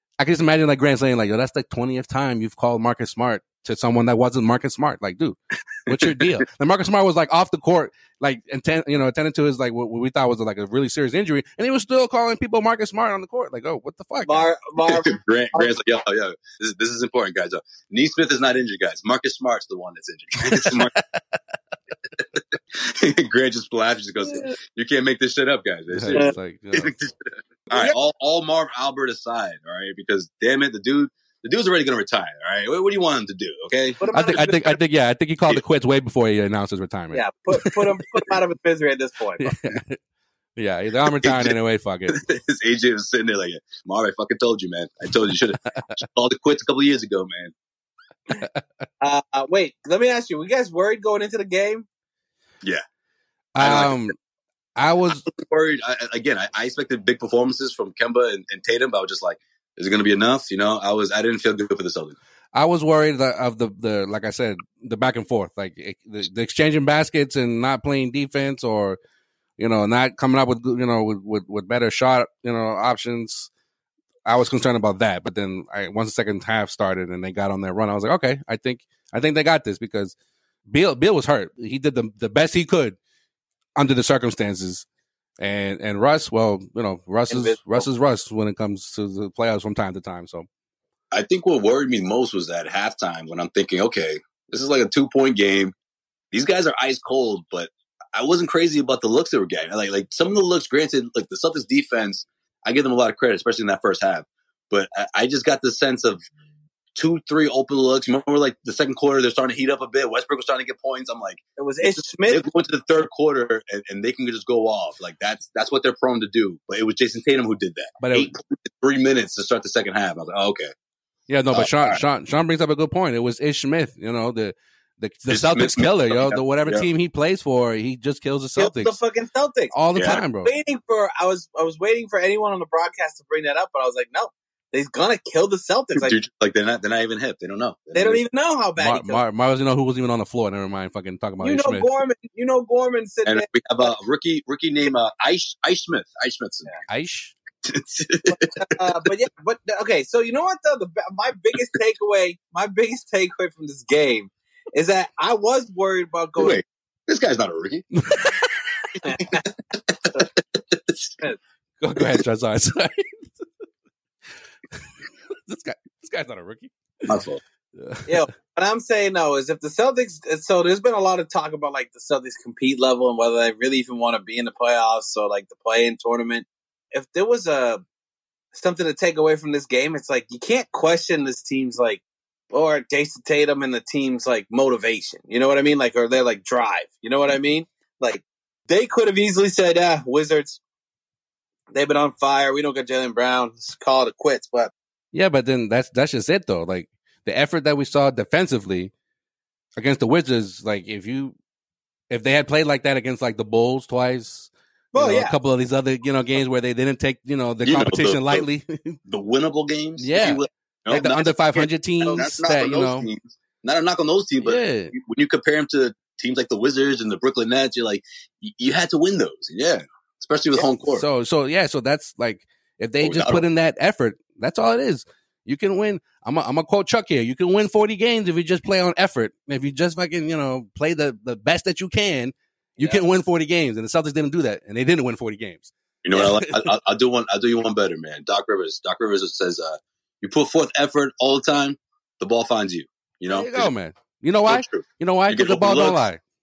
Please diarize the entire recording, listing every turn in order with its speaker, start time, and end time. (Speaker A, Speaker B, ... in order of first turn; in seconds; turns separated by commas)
Speaker A: 0.2-14.5, Speaker B: 14.2-15.7, Speaker C: 14.8-20.9, Speaker A: 20.5-20.9, Speaker C: 22.8-34.0, Speaker A: 25.9-26.9, Speaker B: 27.7-27.9, Speaker B: 34.0-34.7, Speaker A: 34.1-37.7, Speaker B: 37.1-39.5, Speaker A: 39.4-40.0, Speaker A: 40.6-42.2, Speaker C: 41.2-41.5, Speaker C: 42.1-47.5, Speaker B: 49.0-51.8, Speaker A: 53.5-54.1, Speaker C: 53.6-54.0, Speaker A: 54.8-55.2, Speaker C: 55.1-62.2, Speaker A: 62.5-69.0, Speaker A: 69.6-73.5, Speaker A: 74.2-80.1, Speaker A: 80.7-83.0, Speaker A: 83.8-84.8, Speaker A: 85.4-90.5, Speaker B: 87.3-87.8, Speaker C: 91.1-95.7, Speaker C: 96.3-106.2, Speaker C: 107.0-120.7, Speaker B: 111.6-112.4, Speaker A: 118.0-118.3, Speaker A: 121.3-129.0, Speaker C: 121.5-122.0, Speaker C: 125.3-126.9, Speaker B: 128.6-129.7, Speaker A: 129.7-130.5, Speaker C: 129.9-130.2, Speaker B: 130.4-136.2, Speaker C: 135.9-138.2, Speaker B: 137.9-139.2, Speaker A: 138.8-141.9, Speaker B: 141.4-143.9, Speaker C: 143.2-146.7, Speaker A: 146.9-147.3, Speaker C: 147.6-148.5, Speaker B: 148.3-156.6, Speaker C: 156.4-157.8, Speaker A: 158.0-158.3, Speaker B: 159.0-159.4, Speaker C: 159.1-161.2, Speaker A: 161.8-163.4, Speaker A: 165.5-167.1, Speaker C: 167.1-167.4, Speaker A: 167.8-168.2, Speaker B: 168.1-177.8, Speaker B: 178.5-190.6, Speaker B: 191.7-194.7, Speaker A: 195.1-198.9, Speaker A: 199.8-201.3, Speaker A: 202.1-209.0, Speaker B: 204.9-205.3, Speaker C: 207.6-208.4, Speaker C: 209.1-221.1, Speaker A: 210.0-213.1, Speaker A: 214.4-214.9, Speaker A: 220.6-236.7, Speaker C: 223.0-223.4, Speaker C: 236.0-243.7, Speaker A: 243.3-246.2, Speaker C: 244.5-246.0